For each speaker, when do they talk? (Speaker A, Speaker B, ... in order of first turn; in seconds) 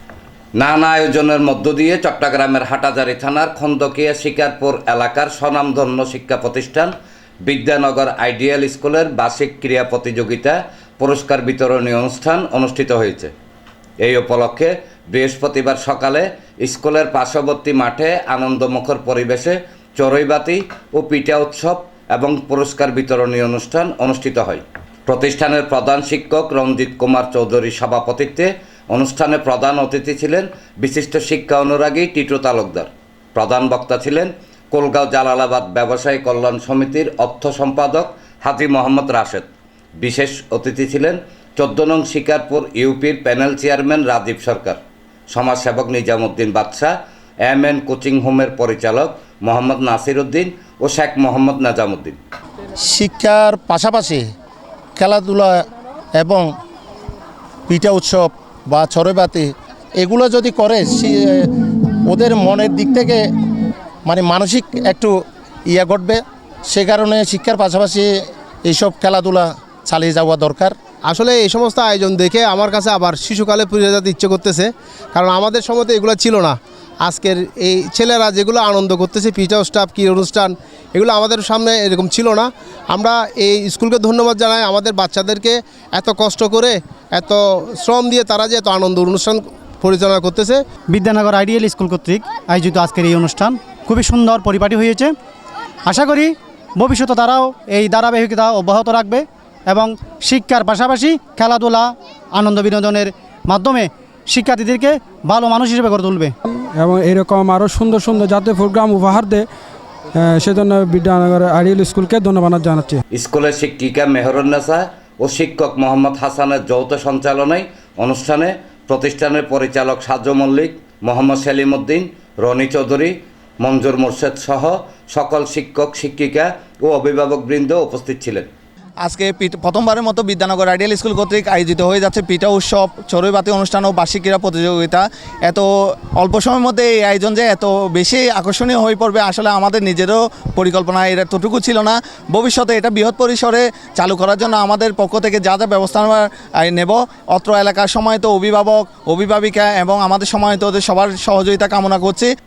Speaker A: 0.6-6.9, 7.5-13.3, 14.0-39.5, 40.0-44.8, 45.3-47.0, 47.5-52.2, 113.1-128.5
Speaker B: 52.9-54.2, 55.0-55.5, 56.2-56.5, 57.7-59.5, 60.0-61.4, 62.1-63.2, 64.1-65.1, 65.7-68.1, 68.7-70.7
Speaker C: 71.1-90.6
Speaker D: 90.9-95.1, 95.9-106.3
Speaker E: 106.5-109.5, 110.2-113.0
Speaker F: 129.1-135.7, 136.2-152.3